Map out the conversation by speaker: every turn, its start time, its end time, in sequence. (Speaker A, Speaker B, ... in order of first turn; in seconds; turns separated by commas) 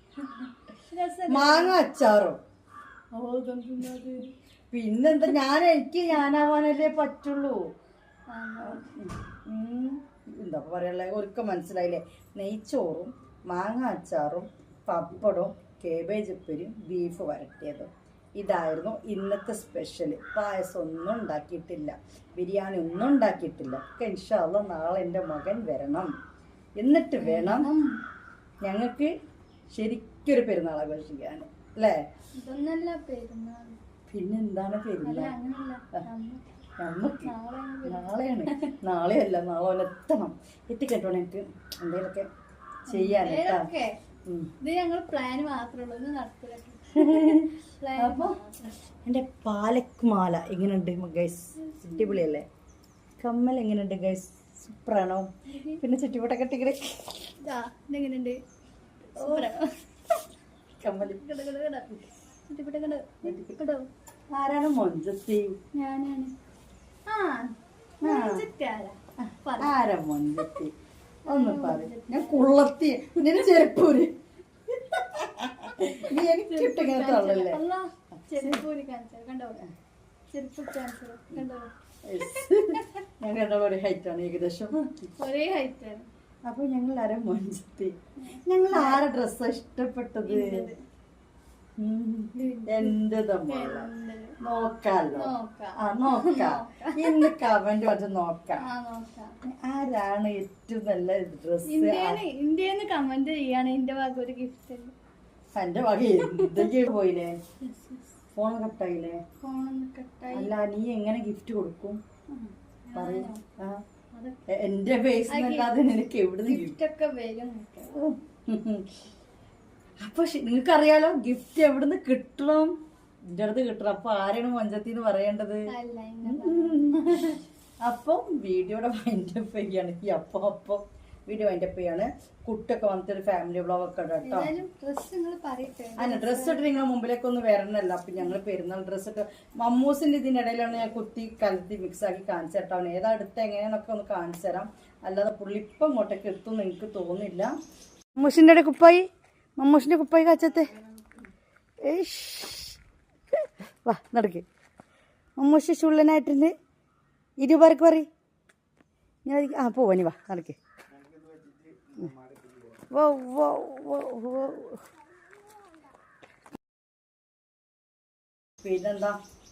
Speaker A: 0.9-1.8, Speaker B: 1.3-2.4, Speaker A: 3.1-4.3, Speaker B: 4.7-7.6, Speaker A: 8.3-8.8, Speaker B: 8.6-26.1, Speaker B: 26.8-27.7, Speaker A: 27.2-28.0, Speaker B: 28.6-29.1, Speaker B: 29.7-32.0, Speaker A: 32.3-33.8, Speaker B: 34.1-35.3, Speaker A: 35.0-36.4, Speaker B: 36.8-37.3, Speaker A: 37.2-38.7, Speaker B: 37.9-42.3, Speaker B: 42.9-43.7, Speaker A: 42.9-44.0, Speaker B: 44.2-44.5, Speaker A: 44.6-48.7, Speaker B: 47.0-48.4, Speaker B: 49.0-52.5, Speaker A: 51.6-52.2, Speaker B: 53.2-57.3, Speaker A: 55.5-55.8, Speaker A: 57.4-58.4, Speaker A: 59.1-60.2, Speaker B: 59.2-59.5, Speaker B: 60.8-61.2, Speaker A: 61.0-61.9, Speaker A: 62.5-63.9, Speaker B: 63.2-63.5, Speaker B: 64.3-65.5, Speaker A: 65.7-66.3, Speaker A: 67.0-69.8, Speaker B: 68.0-68.4, Speaker B: 69.2-70.7, Speaker A: 71.2-72.5, Speaker B: 71.3-74.1, Speaker B: 74.7-77.6, Speaker A: 76.5-79.6, Speaker A: 80.3-82.9, Speaker B: 82.0-84.8, Speaker A: 84.8-86.1, Speaker B: 86.5-90.7, Speaker A: 88.2-89.0, Speaker A: 90.2-90.8, Speaker B: 91.8-93.9, Speaker A: 92.3-94.3, Speaker B: 94.4-98.7, Speaker A: 95.2-97.3, Speaker A: 98.6-99.3, Speaker B: 99.4-102.2, Speaker A: 101.6-104.9, Speaker B: 105.5-107.4, Speaker A: 106.2-106.7, Speaker A: 107.6-108.0, Speaker B: 108.3-109.2, Speaker A: 109.4-110.5, Speaker B: 110.3-112.0, Speaker A: 112.3-113.4, Speaker B: 112.9-113.8, Speaker A: 114.1-114.4, Speaker B: 114.5-116.7, Speaker A: 115.3-115.7, Speaker A: 116.5-118.0, Speaker B: 117.9-118.9, Speaker B: 120.0-122.8, Speaker B: 123.3-125.7, Speaker A: 125.7-127.4, Speaker B: 126.2-134.5, Speaker A: 134.2-136.7, Speaker B: 136.0-147.5, Speaker B: 148.2-149.1, Speaker B: 149.6-150.7, Speaker B: 151.8-152.8, Speaker B: 153.8-154.4, Speaker B: 155.4-156.5, Speaker B: 157.4-158.1, Speaker B: 159.2-160.6, Speaker B: 162.9-164.8, Speaker B: 168.6-169.2